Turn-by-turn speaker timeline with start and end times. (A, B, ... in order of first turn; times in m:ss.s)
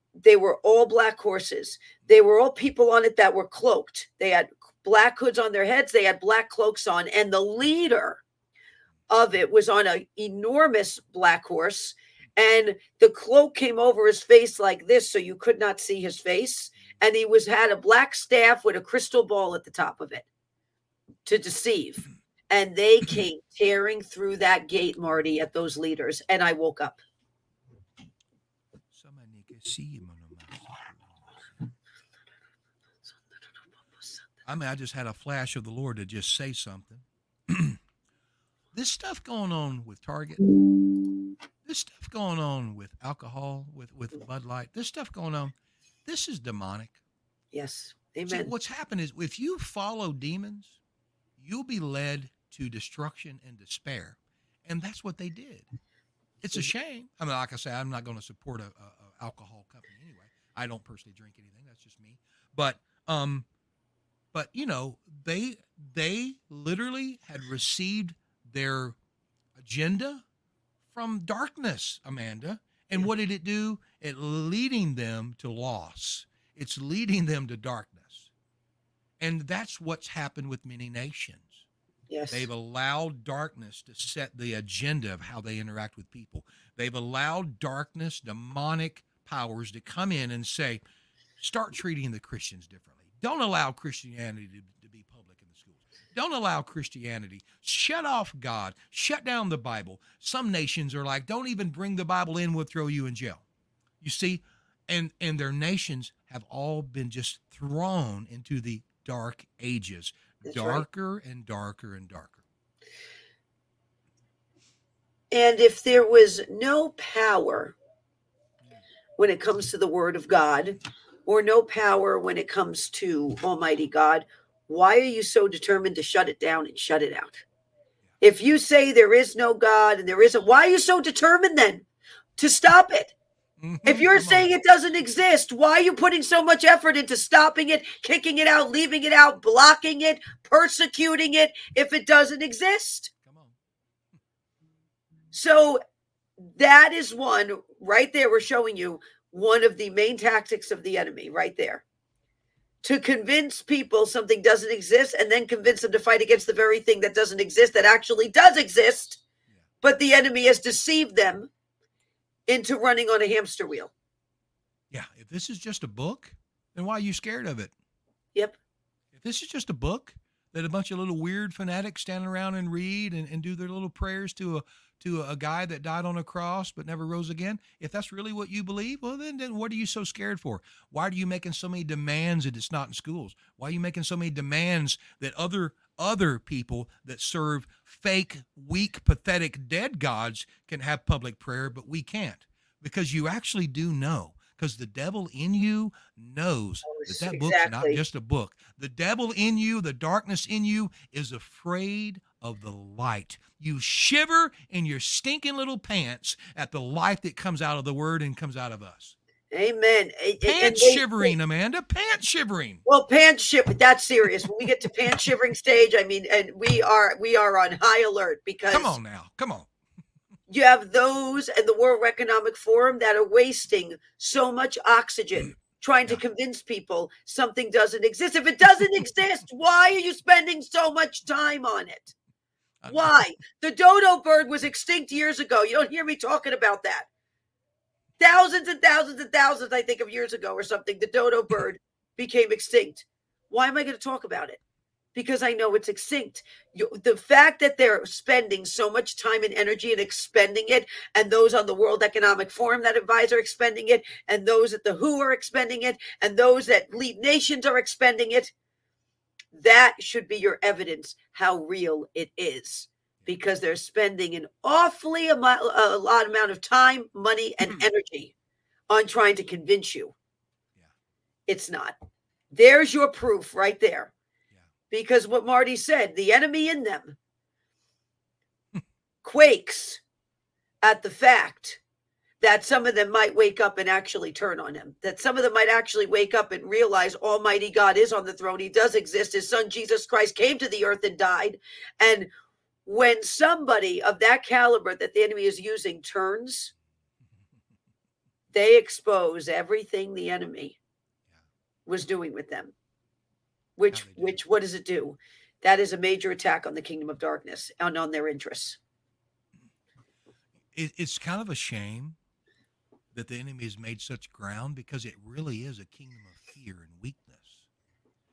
0:00.2-0:08.2 A
0:09.1-0:20.3 A
0:21.2-0:27.0 A
0:28.9-0:31.3 B
0:34.4-0:37.8 B
0:38.7-0:40.4 B
0:41.6-0:45.6 B
0:46.1-0:47.0 B
0:47.5-0:48.5 A
0:48.3-0:50.8 B
0:51.4-0:55.7 B
0:56.4-1:03.5 B
1:04.3-1:09.0 B
1:09.6-1:10.2 B
1:10.9-1:18.3 B
1:19.2-1:21.6 B
1:22.1-1:22.5 A
1:22.3-1:30.8 B
1:31.4-1:43.4 B
1:44.0-1:52.4 B
1:50.4-1:50.8 A
1:55.3-1:57.8 A
1:59.2-2:07.4 A
2:08.2-2:11.8 A
2:12.4-2:13.1 A
2:13.6-2:14.5 B
2:13.8-2:23.1 A
2:23.2-2:23.6 B
2:25.3-2:25.8 A
2:26.4-2:31.8 A
2:32.8-2:39.2 A
2:39.8-2:41.5 A
2:42.5-2:43.9 A
2:44.9-2:47.7 B
2:49.1-3:29.2 B
3:16.9-3:18.0 A
3:29.5-3:31.3 A
3:30.4-3:32.8 B
3:32.9-3:39.0 A
3:38.7-3:39.7 B
3:40.5-3:52.2 A
3:52.8-3:53.2 B
3:52.9-3:57.1 A
3:58.2-4:04.6 A
4:05.2-4:18.5 A
4:19.5-4:28.3 A
4:28.9-4:30.1 A
4:31.5-4:32.0 A
4:32.5-4:34.1 A
4:34.9-4:37.2 A
4:39.2-4:40.0 A
4:40.8-4:41.8 A
4:42.4-4:52.3 A
4:52.9-4:56.7 A
4:58.5-5:00.8 A
5:01.9-5:02.7 A
5:03.8-5:08.8 A
5:03.9-5:04.4 B
5:10.7-5:12.2 B
5:13.1-5:17.6 B